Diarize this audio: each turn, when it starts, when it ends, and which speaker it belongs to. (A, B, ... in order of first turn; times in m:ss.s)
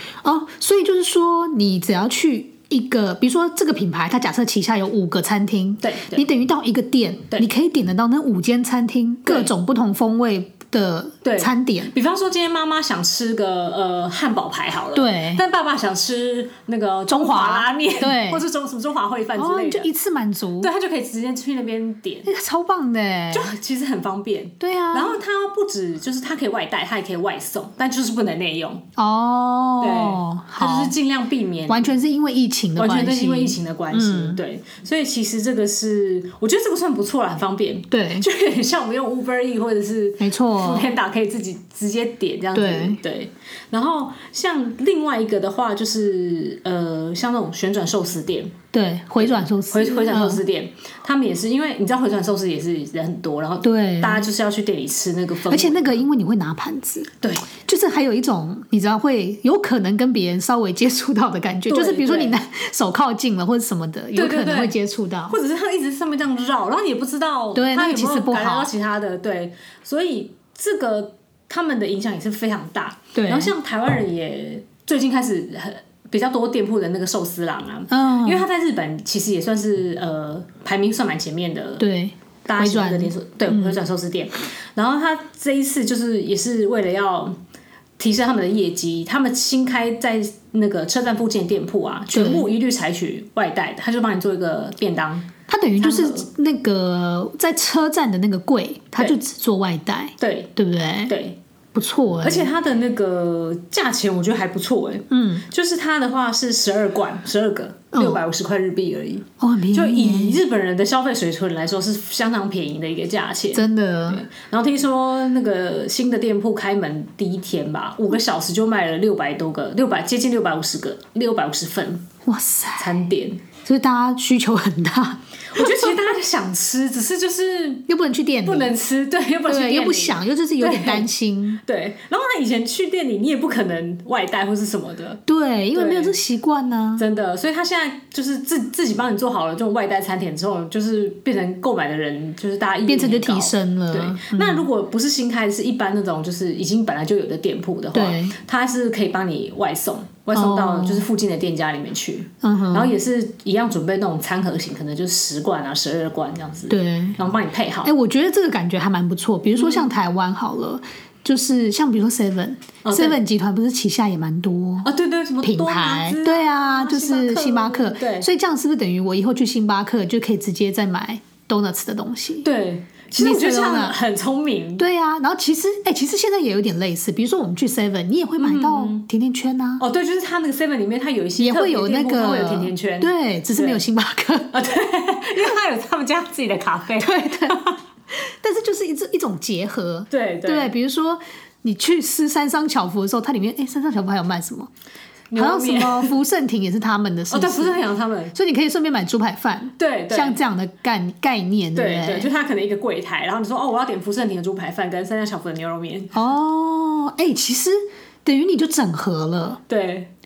0:00.2-0:11.9 A
0:05.8-0:06.2 B
0:11.2-0:19.9 B
0:15.0-0:15.4 A
0:17.1-0:18.4 A
0:19.4-0:20.7 A
0:20.6-0:22.3 B
0:22.2-0:23.5 A
0:23.3-0:28.9 B
0:24.6-0:25.2 A
0:29.0-0:31.0 A
0:29.8-0:31.9 B
0:31.7-0:34.4 A
0:32.8-0:48.6 B
0:37.9-0:38.3 A
0:40.2-0:40.9 A
0:42.5-0:43.0 A
0:48.7-0:50.4 A
0:49.2-0:56.0 B
0:53.6-0:54.3 A
0:55.5-1:05.4 A
0:57.2-0:57.5 B
1:01.7-1:02.4 B
1:04.2-1:04.8 B
1:05.3-1:21.9 B
1:07.5-1:08.7 A
1:13.2-1:13.5 A
1:17.9-1:18.5 A
1:21.8-1:23.8 A
1:22.4-1:27.4 B
1:28.0-1:35.3 B
1:32.1-1:32.5 A
1:35.5-1:41.1 A
1:35.8-1:36.3 B
1:40.2-1:40.5 B
1:41.1-1:41.4 B
1:41.8-1:42.5 A
1:42.2-2:02.1 B
1:45.1-1:45.5 A
1:47.9-1:48.2 A
1:49.4-1:50.4 A
1:53.5-1:54.2 A
2:02.2-2:03.0 A
2:02.8-2:03.4 B
2:03.6-2:05.9 A
2:05.5-2:07.8 B
2:07.9-2:08.8 A
2:08.4-2:11.1 B
2:09.5-2:11.6 A
2:11.6-2:15.2 B
2:15.3-2:17.0 A
2:15.7-2:16.2 B
2:17.0-2:37.9 B
2:22.9-2:24.7 A
2:27.9-2:28.4 A
2:30.3-2:31.1 A
2:32.4-2:32.9 A
2:36.7-2:37.2 A
2:37.8-2:44.9 A
2:39.6-2:39.9 B
2:42.8-2:43.2 B
2:44.8-2:48.3 B
2:45.4-2:52.5 A
2:52.4-2:54.9 B
2:53.2-2:54.0 A
2:54.8-2:59.8 A
2:58.4-2:59.1 B
2:59.8-3:03.8 B
3:01.4-3:04.6 A
3:04.5-3:07.8 B
3:07.0-3:07.6 A
3:08.1-3:14.7 A
3:10.1-3:10.7 B
3:15.3-3:16.2 B
3:15.4-3:22.3 A
3:17.3-3:18.4 B
3:19.8-3:20.4 B
3:21.8-3:26.2 B
3:26.1-3:29.6 A
3:29.7-3:30.1 B